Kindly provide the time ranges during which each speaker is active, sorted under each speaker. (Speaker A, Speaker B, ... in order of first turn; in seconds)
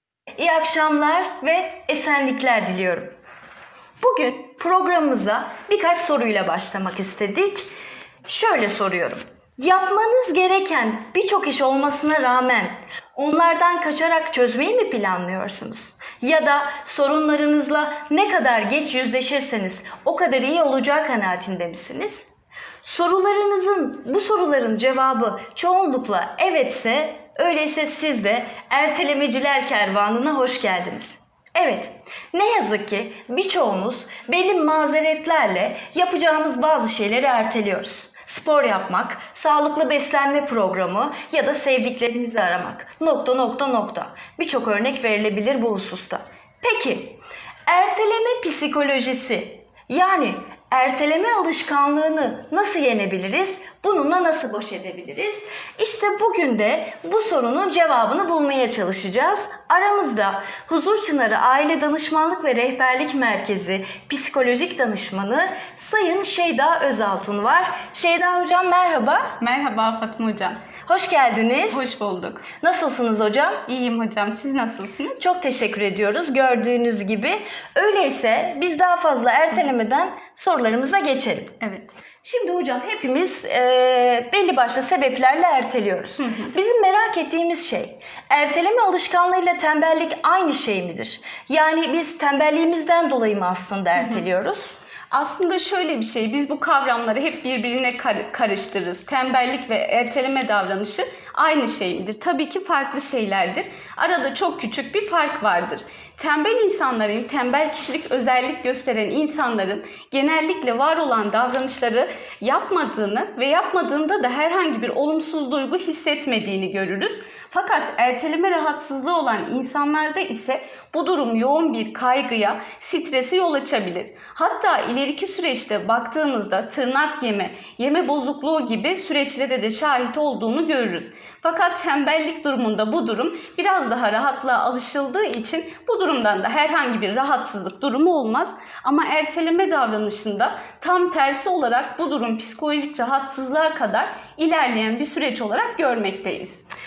Speaker A: 0.3-3.1, 4.0-7.7, 8.2-22.3, 22.8-69.4, 70.8-71.9, 72.6-73.6, 75.2-81.6, 82.2-94.8
Speaker B: 69.4-70.6, 71.7-72.5, 73.7-75.2, 81.6-81.9, 86.2-86.5, 94.0-94.2, 95.1-146.6